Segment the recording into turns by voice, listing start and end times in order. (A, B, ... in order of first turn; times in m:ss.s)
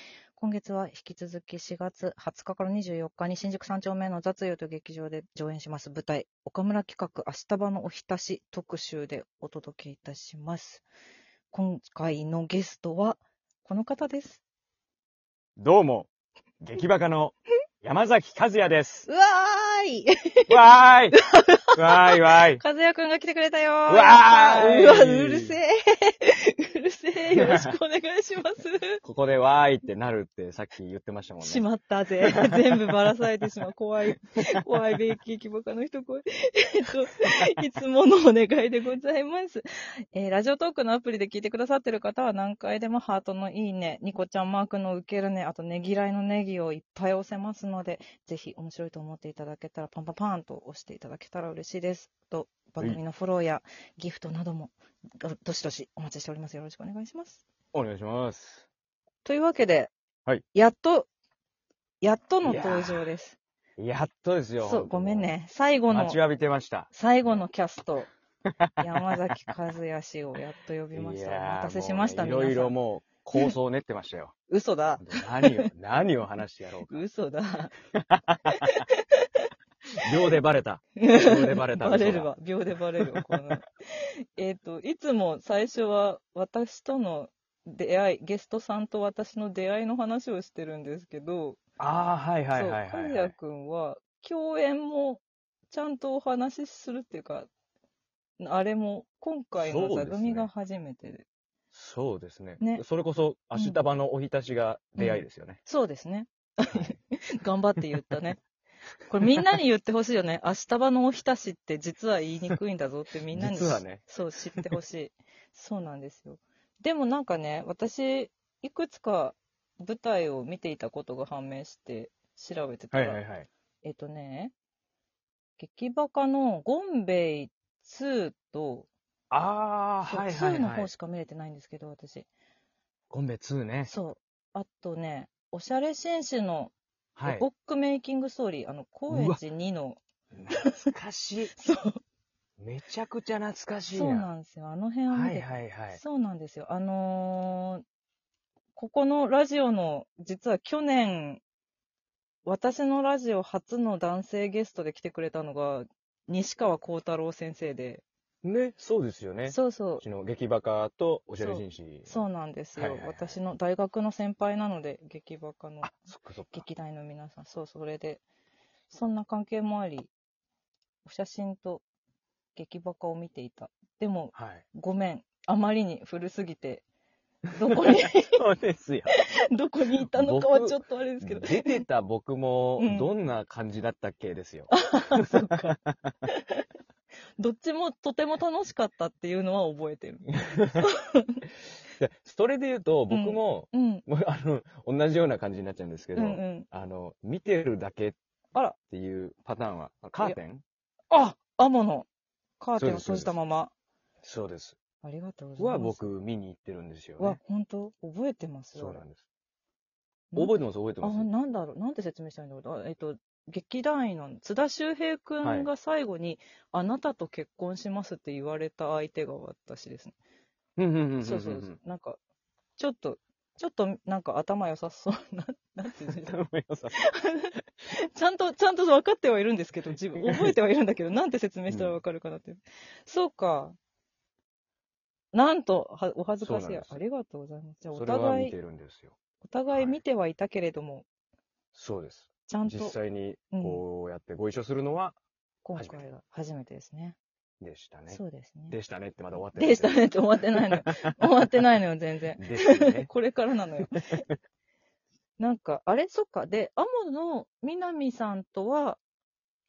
0:00.4-0:10.8 A
0:11.5-0:14.4 A
0:15.6-0:16.1 B
0:16.6-0:19.1 B
0:19.1-0:20.5 A
0:20.5-0:21.2 B
0:21.1-0:21.7 A
0:21.7-0:22.6 B
0:22.6-0:29.0 A
0:23.9-0:25.6 B
0:27.4-0:27.7 B
0:29.0-0:31.7 B
0:31.4-0:57.4 A
0:57.7-0:58.7 B
0:59.2-0:59.9 A
1:00.5-1:01.1 A
1:02.0-1:03.4 A
1:02.4-1:03.0 B
1:03.8-1:05.3 B
1:04.6-1:06.2 A
1:05.9-1:07.5 B
1:06.9-1:08.1 A
1:08.6-1:09.1 B
1:08.8-1:12.8 A
1:10.9-1:14.3 B
1:14.5-1:15.6 A
1:15.0-1:17.0 B
1:16.9-1:17.7 A
1:17.9-1:18.5 B
1:18.5-1:19.2 A
1:20.0-1:22.3 B
1:21.0-1:23.7 A
1:23.0-1:23.4 B
1:24.4-1:31.6 A
1:31.8-1:33.4 B
1:32.5-1:37.5 A
1:38.4-1:41.3 A
1:39.6-1:40.5 B
1:41.7-1:45.6 B
1:43.6-1:43.8 A
1:45.0-1:48.4 A
1:46.7-1:47.0 B
1:49.1-2:03.2 A
1:53.3-1:54.7 B
2:02.9-2:03.5 B
2:03.8-2:04.5 A
2:05.6-2:08.9 A
2:09.3-2:10.9 B
2:10.0-2:12.3 A
2:13.1-2:13.9 B
2:13.9-2:16.7 A
2:17.2-2:17.5 B
2:17.2-2:20.0 A
2:19.1-2:19.4 B
2:20.3-2:21.6 B
2:20.5-2:20.9 A
2:21.6-2:22.0 A
2:22.6-2:24.3 B
2:23.9-2:27.8 A
2:25.1-2:26.0 B
2:28.8-2:31.4 A
2:32.4-2:38.0 A
2:38.4-2:42.2 B
2:39.5-2:40.0 A
2:41.4-2:45.9 A
2:42.8-2:43.4 B
2:45.8-2:46.7 B
2:46.5-2:48.2 A
2:48.9-2:50.1 A
2:51.0-2:51.8 A
2:52.6-2:56.8 A
2:54.3-2:54.7 B
2:57.5-2:58.4 A
2:58.2-2:59.2 B
2:59.5-3:01.9 A
3:00.0-3:06.0 B
3:02.8-3:03.1 A
3:04.7-3:06.6 A
3:07.4-3:11.4 A
3:10.6-3:10.8 B
3:12.0-3:18.2 B
3:13.1-3:14.0 A
3:16.2-3:16.7 A
3:18.9-3:20.6 B
3:21.1-3:22.1 A
3:22.6-3:23.7 A
3:22.8-3:23.3 B
3:24.2-3:24.8 B
3:25.0-3:26.0 A
3:25.6-3:27.4 B
3:27.2-3:29.0 A
3:28.7-3:29.2 B
3:30.3-3:40.2 A
3:30.4-3:31.3 B
3:35.4-3:35.7 B
3:40.8-3:41.8 B
3:41.2-3:42.2 A
3:42.8-3:46.4 A
3:46.1-3:47.0 B
3:46.9-3:53.8 A
3:50.2-3:50.5 B
3:51.7-3:52.0 B
3:55.3-3:58.6 A
3:56.4-3:57.0 B
3:57.9-3:59.2 B
3:59.4-4:01.1 A
3:59.7-4:00.0 B
4:01.7-4:05.2 B
4:02.5-4:03.0 A
4:03.5-4:03.8 A
4:05.6-4:07.2 A
4:05.8-4:06.0 B
4:07.6-4:10.0 B
4:08.1-4:08.8 A
4:09.6-4:14.2 A
4:10.7-4:11.0 B
4:12.4-4:13.1 B
4:13.8-4:14.4 B
4:15.4-4:19.0 A